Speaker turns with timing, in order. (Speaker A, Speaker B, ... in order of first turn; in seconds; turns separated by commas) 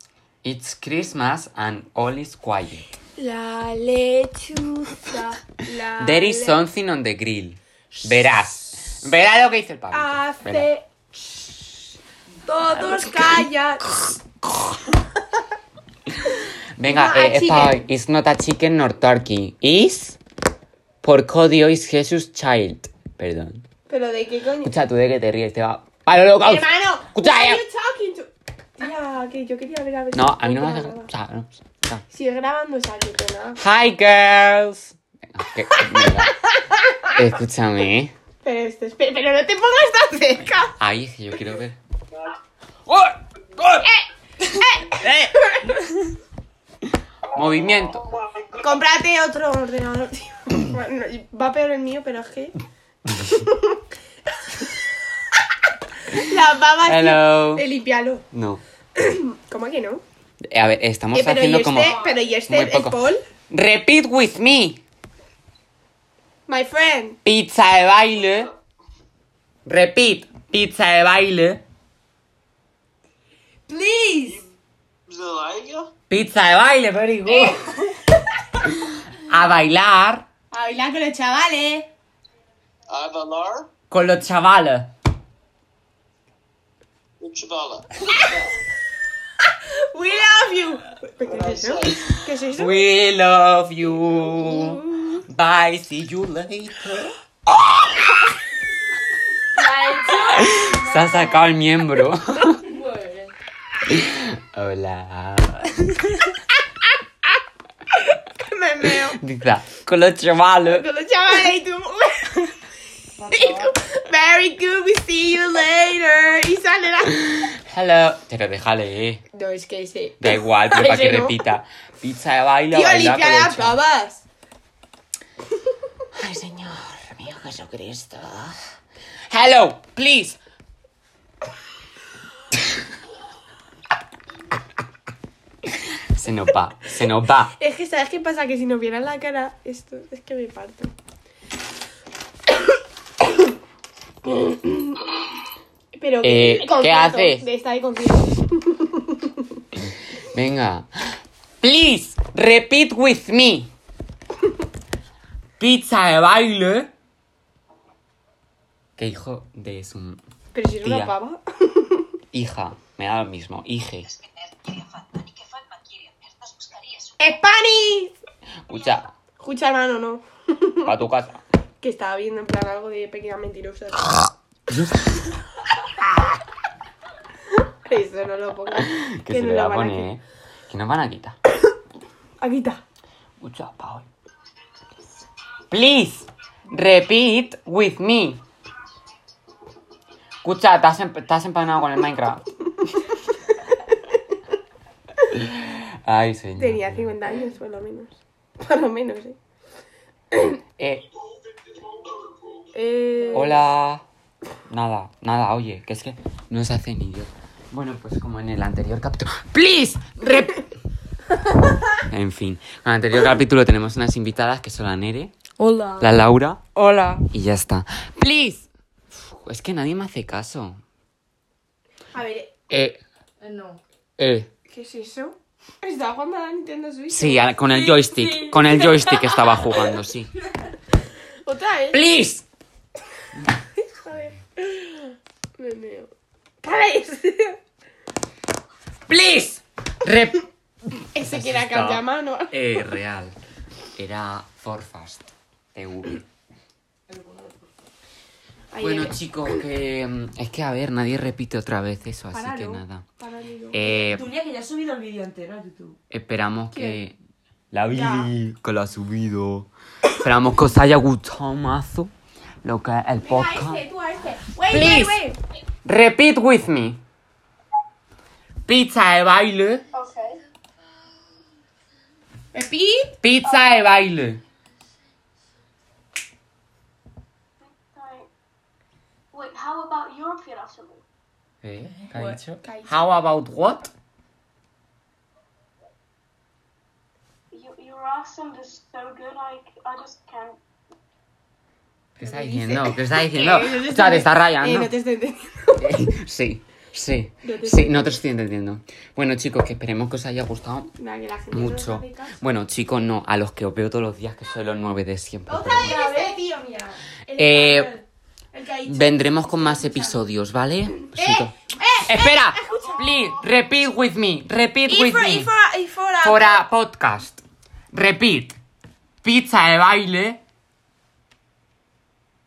Speaker A: 0.4-2.9, Speaker B: 3.2-6.6, Speaker A: 6.0-10.7, Speaker B: 9.9-10.8, Speaker B: 12.4-14.0, Speaker A: 12.7-13.4, Speaker A: 16.8-20.2, Speaker B: 16.9-17.8, Speaker A: 21.0-23.6, Speaker B: 23.9-24.7, Speaker A: 24.6-27.6, Speaker B: 26.4-31.1, Speaker A: 30.1-32.0, Speaker B: 32.1-33.6, Speaker A: 33.6-36.4, Speaker B: 36.3-37.1, Speaker A: 37.1-38.1, Speaker B: 38.4-40.7, Speaker A: 40.8-41.8, Speaker B: 43.6-45.8, Speaker A: 44.9-45.3, Speaker A: 47.3-48.2, Speaker B: 48.5-52.5, Speaker B: 53.1-53.8, Speaker B: 54.5-54.8, Speaker B: 56.0-58.2, Speaker A: 56.9-57.6, Speaker A: 58.3-58.6, Speaker B: 59.0-60.0, Speaker A: 60.5-64.8, Speaker B: 61.1-63.2, Speaker B: 66.5-67.2, Speaker A: 67.2-68.5, Speaker A: 69.7-71.6, Speaker B: 73.7-74.4, Speaker C: 75.1-75.9, Speaker A: 76.1-77.7, Speaker A: 78.8-80.3, Speaker B: 80.5-81.9, Speaker C: 82.9-83.7, Speaker A: 83.9-84.9, Speaker C: 87.2-88.2, Speaker B: 89.9-92.8, Speaker C: 91.2-92.0, Speaker A: 92.6-97.2, Speaker B: 94.4-95.1, Speaker D: 99.5-101.5, Speaker A: 100.1-102.7, Speaker D: 102.6-103.3, Speaker A: 103.8-106.3, Speaker B: 108.1-109.2, Speaker A: 109.0-110.8, Speaker B: 110.7-112.6, Speaker D: 113.2-113.7, Speaker B: 113.2-117.3, Speaker A: 117.5-119.2, Speaker B: 119.3-121.3, Speaker A: 120.2-123.8, Speaker B: 122.7-124.2, Speaker A: 126.2-128.6, Speaker A: 129.3-130.4, Speaker A: 136.0-137.5, Speaker B: 137.5-140.9, Speaker B: 144.2-145.1, Speaker B: 145.9-149.4, Speaker A: 146.2-147.4, Speaker A: 150.2-153.7, Speaker A: 155.6-156.9, Speaker A: 159.0-160.2, Speaker B: 160.5-162.1, Speaker A: 160.8-161.1, Speaker A: 162.3-164.1, Speaker B: 167.2-168.2, Speaker A: 168.7-169.1, Speaker B: 169.4-170.9, Speaker A: 170.8-171.4, Speaker B: 171.8-174.2, Speaker A: 174.3-175.3, Speaker B: 177.6-180.1, Speaker A: 178.8-181.4, Speaker B: 182.4-182.8, Speaker A: 183.4-184.1, Speaker A: 185.7-188.4, Speaker A: 190.4-192.4, Speaker A: 195.3-197.1, Speaker B: 196.6-199.4, Speaker A: 200.8-201.1, Speaker B: 202.7-203.6, Speaker A: 203.3-204.0, Speaker A: 204.7-210.7, Speaker A: 211.9-215.3, Speaker D: 215.6-216.1, Speaker A: 216.0-218.7, Speaker A: 219.3-220.8, Speaker B: 222.1-222.5, Speaker A: 222.7-223.0, Speaker D: 223.4-223.8, Speaker A: 224.2-224.5, Speaker B: 224.7-229.9, Speaker A: 227.1-230.3, Speaker B: 231.4-232.0, Speaker A: 231.9-232.4, Speaker B: 233.8-236.1, Speaker B: 236.6-237.6, Speaker A: 239.1-240.5, Speaker A: 241.0-243.4, Speaker B: 241.1-242.8, Speaker A: 244.0-246.2, Speaker D: 247.1-247.5, Speaker B: 248.7-249.2, Speaker A: 248.8-253.1, Speaker B: 252.3-254.0, Speaker A: 253.7-254.3, Speaker D: 254.0-256.0, Speaker A: 256.1-257.2, Speaker B: 256.7-257.0, Speaker A: 257.7-262.1, Speaker B: 257.9-258.3, Speaker A: 262.6-263.8, Speaker B: 263.2-265.4, Speaker A: 264.7-265.2, Speaker A: 265.9-267.0, Speaker A: 268.7-269.8, Speaker E: 270.0-270.4, Speaker B: 272.5-273.2, Speaker A: 273.2-274.4, Speaker E: 277.8-278.3, Speaker E: 279.3-281.0, Speaker A: 281.6-283.9, Speaker B: 282.6-282.9, Speaker E: 287.5-290.6, Speaker A: 292.2-294.9, Speaker B: 292.2-296.1, Speaker A: 295.8-300.9, Speaker B: 297.4-298.2, Speaker B: 300.9-302.4, Speaker A: 301.5-306.0, Speaker B: 305.5-310.2, Speaker E: 305.8-306.4, Speaker A: 307.3-307.9, Speaker A: 308.9-315.5, Speaker B: 311.1-313.1, Speaker B: 314.9-316.6, Speaker A: 316.2-318.6, Speaker A: 319.2-320.4